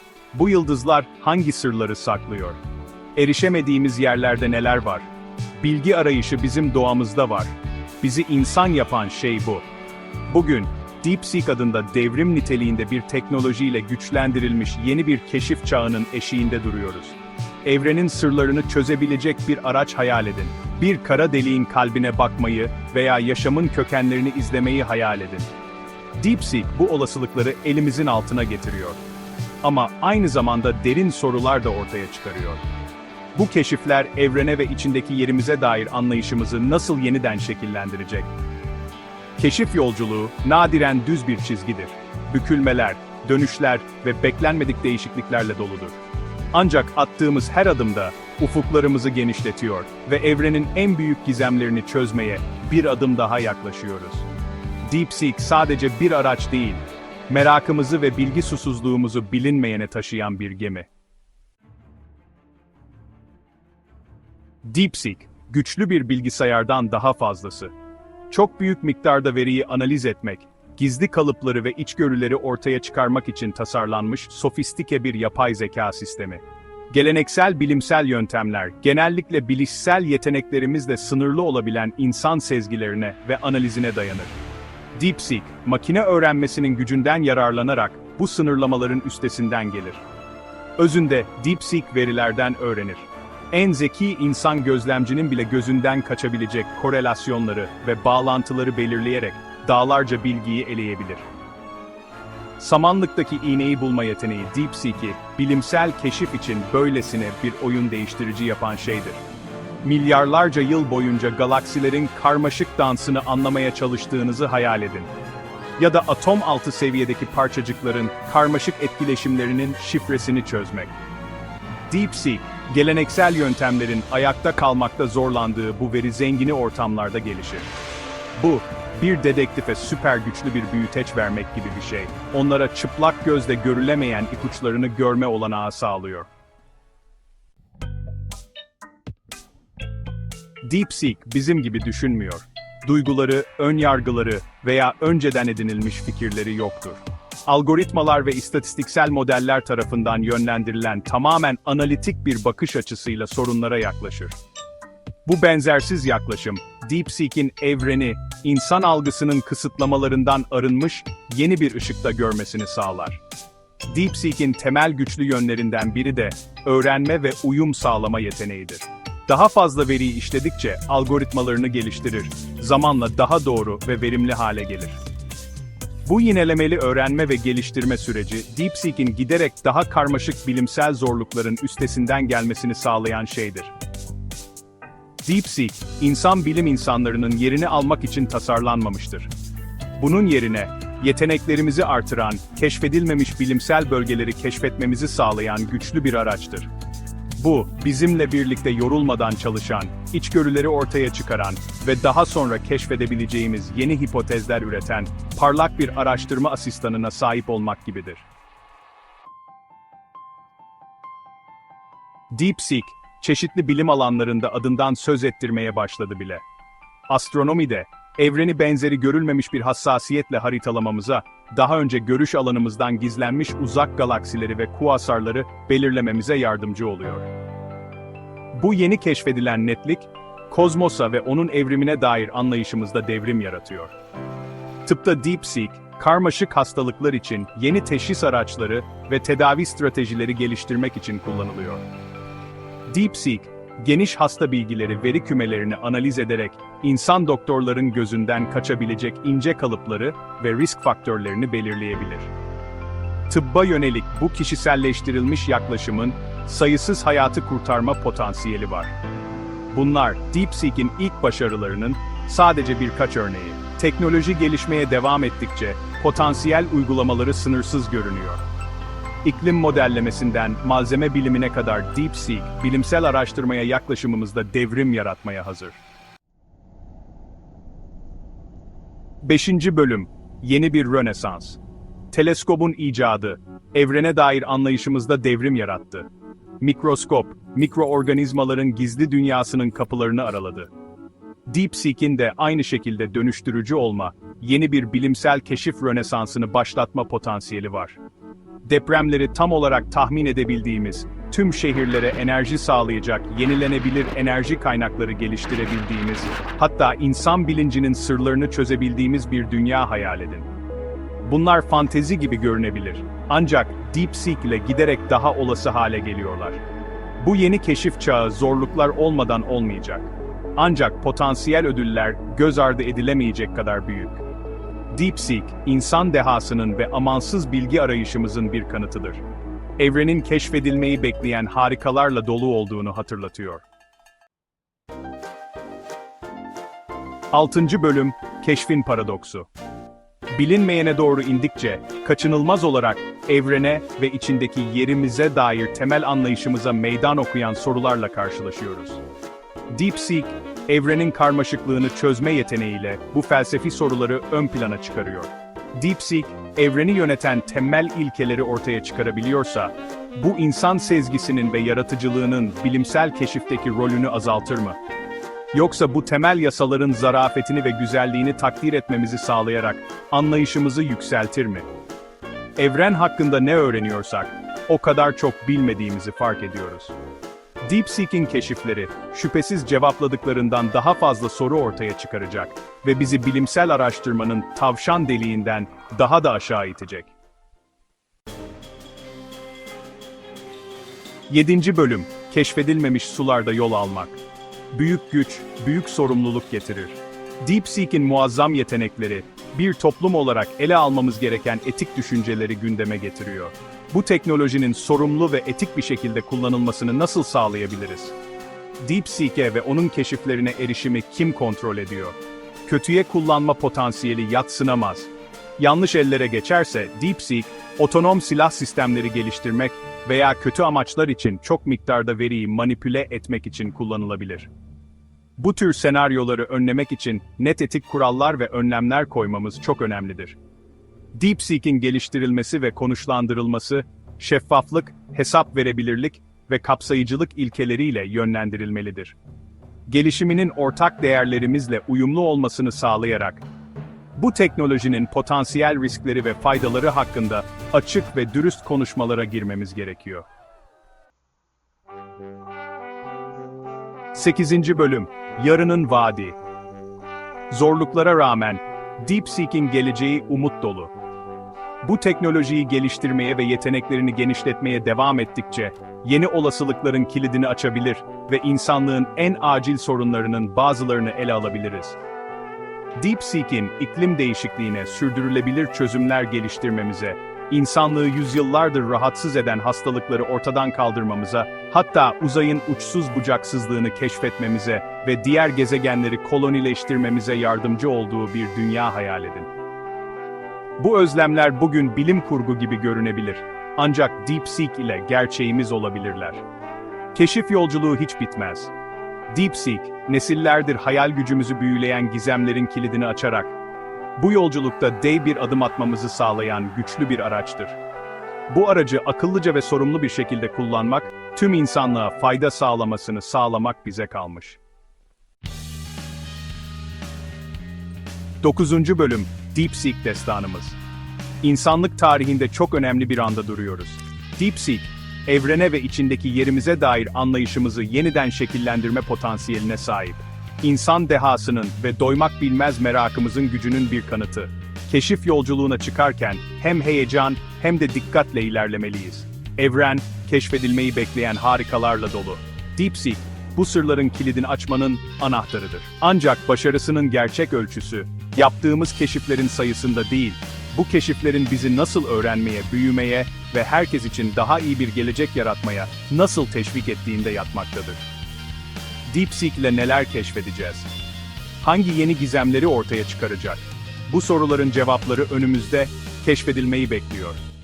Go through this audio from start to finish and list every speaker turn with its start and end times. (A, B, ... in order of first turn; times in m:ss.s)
0:00.3-0:02.6 A
0:03.2-0:09.6 A
0:10.3-0:25.5 A
0:26.2-0:29.0 A
0:29.6-0:32.6 A
0:33.3-0:38.3 A
0:39.4-0:46.0 A
0:46.5-0:54.3 A
0:54.8-1:00.9 A
1:04.6-1:07.7 A
1:08.3-1:24.4 A
1:25.0-1:30.0 A
1:30.8-1:41.3 A
1:42.6-1:49.2 A
1:49.8-1:55.1 A
1:55.8-2:00.9 A
2:01.9-2:07.7 A
2:08.4-2:16.3 A
2:20.6-2:34.4 A
2:35.2-2:43.2 A
2:43.9-2:55.0 A
2:56.0-3:03.7 A
3:05.2-3:09.3 A
3:10.0-3:16.7 A
3:17.4-3:28.2 A
3:32.3-3:36.4 A
3:37.1-3:47.3 A
3:48.5-3:53.9 A
3:54.8-4:01.9 A
4:02.9-4:12.3 A
4:13.3-4:18.9 A
4:19.7-4:28.4 A
4:29.2-4:35.8 A
4:39.2-4:41.6 A
4:42.1-4:46.1 A
4:46.6-4:50.7 A
4:51.5-4:58.0 A
4:58.6-5:10.5 A
5:11.2-5:16.6 A
5:17.2-5:24.2 A
5:24.9-5:29.2 A
5:29.8-5:33.6 A
5:37.3-5:39.5 A
5:40.3-5:49.0 A
5:49.7-6:04.8 A
6:05.5-6:11.7 A
6:12.6-6:16.9 A
6:17.6-6:27.1 A
6:31.3-6:34.2 A
6:34.7-6:48.1 A
6:48.8-7:04.5 A
7:05.4-7:10.4 A
7:11.1-7:19.2 A
7:19.9-7:23.4 A
7:24.2-7:30.3 A
7:34.1-7:36.4 A
7:37.5-7:40.9 A
7:41.8-7:52.0 A
7:53.0-8:09.5 A
8:10.8-8:16.4 A
8:17.1-8:18.7 A
8:19.3-8:23.5 A
8:24.2-8:27.8 A
8:28.5-8:34.6 A
8:38.4-8:40.8 A
8:41.4-9:18.0 A
9:19.1-9:20.9 A
9:21.6-9:27.4 A